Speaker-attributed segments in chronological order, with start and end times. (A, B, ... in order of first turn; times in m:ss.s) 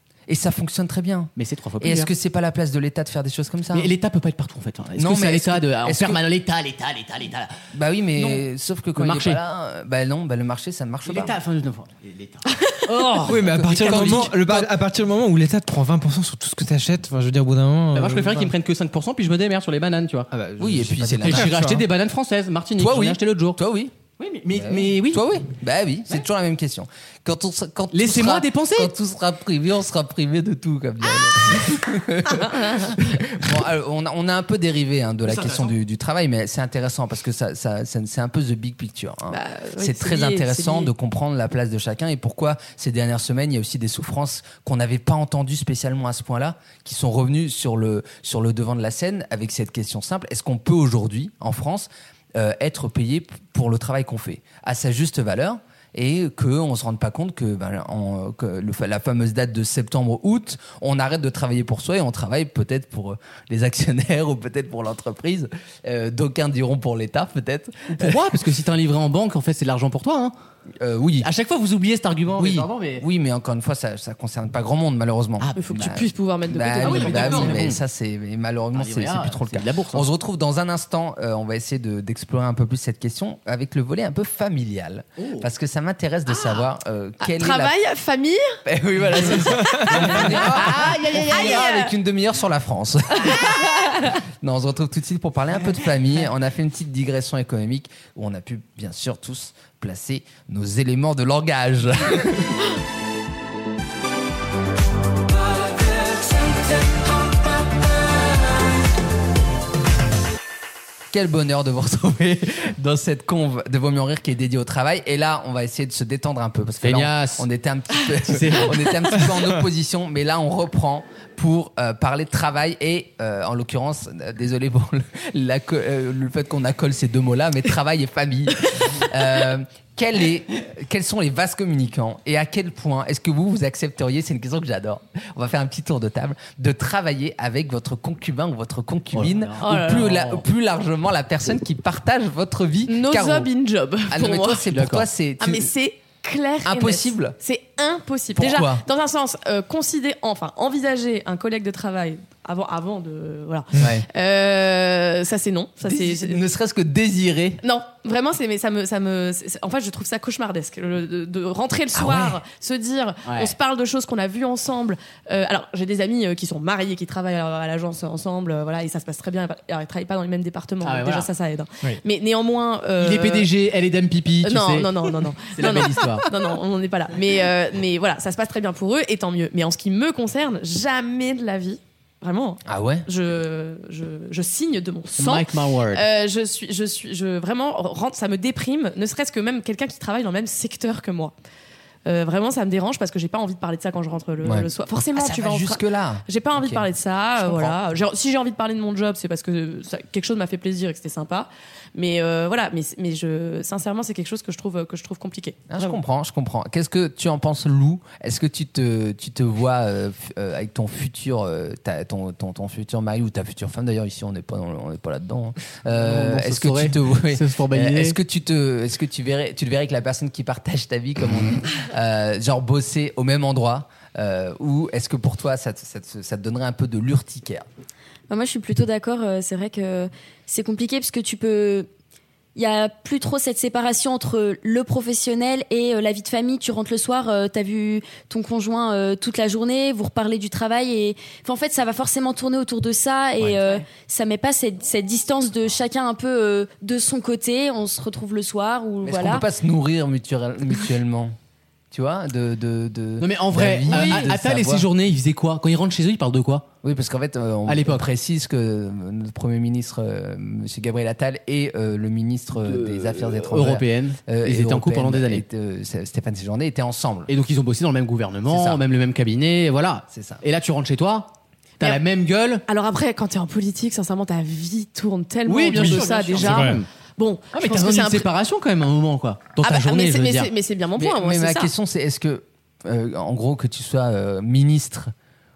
0:00.3-0:03.9 A
0:01.4-0:02.1 B
0:03.7-0:07.5 B
0:05.0-0:06.2 A
0:07.7-0:11.4 A
0:08.1-0:08.4 B
0:09.0-0:09.4 B
0:11.0-0:14.3 B
0:12.5-0:12.9 C
0:13.2-0:18.5 D
0:13.3-0:14.7 A
0:17.9-0:20.3 B
0:20.3-0:21.8 D
0:20.6-0:21.6 A
0:21.2-0:23.6 B
0:22.8-0:23.9 A
0:24.2-0:25.2 B
0:24.5-1:08.4 A
0:27.9-0:28.9 B
0:35.2-0:35.7 B
0:39.3-0:40.9 C
1:07.9-1:10.3 B
1:10.8-1:11.3 A
1:11.2-1:13.0 B
1:12.4-1:27.7 A
1:15.6-1:17.6 C
1:16.8-1:17.8 B
1:18.7-1:20.1 B
1:25.2-1:25.5 B
1:26.3-1:26.6 C
1:27.2-1:28.6 C
1:28.6-1:42.6 A
1:29.6-1:31.9 C
1:29.9-1:31.6 B
1:33.2-1:34.1 C
1:51.1-2:23.5 A
1:56.8-1:57.4 B
1:58.2-1:58.8 B
2:19.1-2:20.4 B
2:19.6-2:20.1 C
2:22.9-2:24.7 C
2:24.1-2:25.7 A
2:24.7-2:25.1 B
2:25.4-2:36.4 C
2:26.6-2:27.4 A
2:28.4-2:28.8 A
2:35.8-2:37.6 A
2:37.6-2:53.5 C
2:41.9-2:42.4 A
2:43.2-2:43.5 B
2:50.8-2:51.3 B
2:53.0-2:56.3 B
2:54.4-3:11.3 C
3:02.6-3:03.1 A
3:05.1-3:06.0 B
3:12.0-3:26.0 C
3:14.4-3:17.8 A
3:25.7-3:47.6 A
3:35.9-3:38.2 B
3:48.3-3:51.9 E
3:52.6-4:09.4 E
4:09.0-4:11.3 A
4:11.9-4:14.9 A
4:13.2-4:16.7 B
4:16.8-4:27.3 A
4:17.6-4:18.0 B
4:22.6-4:25.4 B
4:27.3-4:32.6 B
4:28.4-4:28.8 A
4:30.1-4:30.4 A
4:32.7-4:38.3 C
4:35.4-4:36.9 B
4:36.4-4:36.8 D
4:37.5-4:40.5 B
4:39.6-4:41.7 C
4:41.0-4:45.1 A